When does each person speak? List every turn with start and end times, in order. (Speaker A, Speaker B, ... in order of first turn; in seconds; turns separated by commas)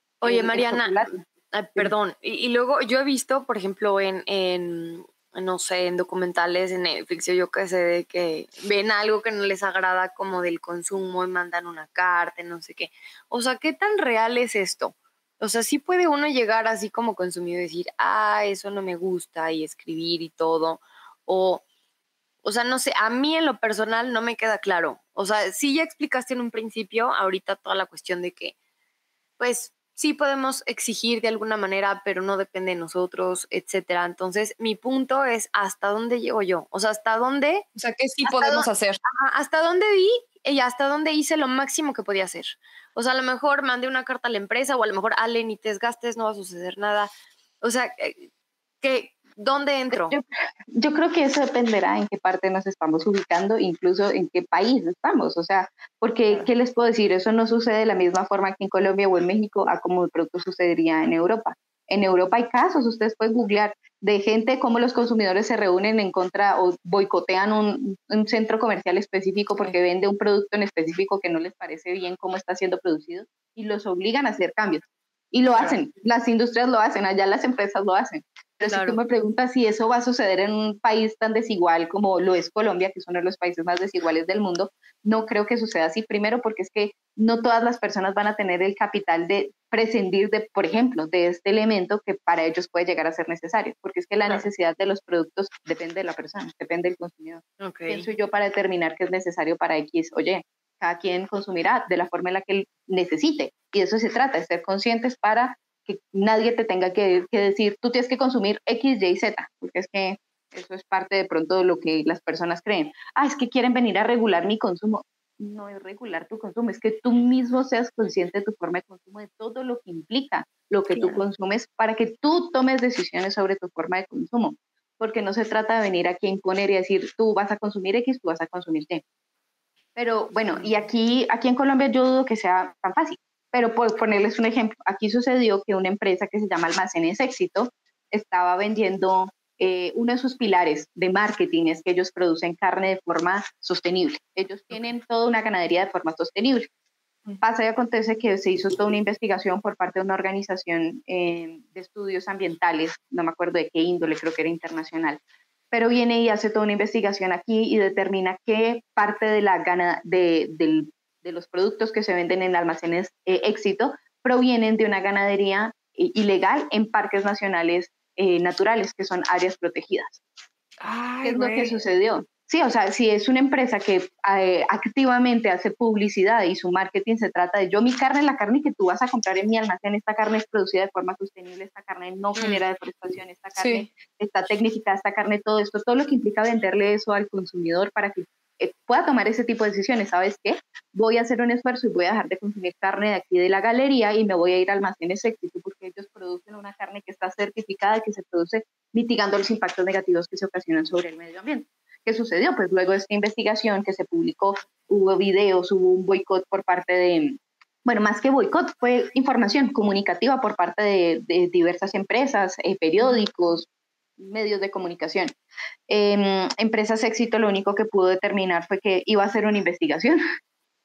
Speaker A: 0.2-21.6, Speaker B: 0.2-1.1, Speaker A: 22.4-28.5, Speaker A: 29.4-37.6, Speaker C: 37.8-39.0, Speaker A: 38.2-47.1, Speaker A: 47.6-48.3, Speaker A: 48.8-50.1, Speaker B: 49.9-129.0, Speaker A: 78.7-79.0, Speaker A: 97.6-98.1, Speaker B: 129.9-146.7, Speaker B: 147.4-155.2, Speaker B: 155.7-170.2, Speaker C: 170.8-171.8, Speaker B: 171.2-213.7, Speaker C: 183.6-183.8, Speaker B: 214.2-215.3, Speaker B: 215.9-220.2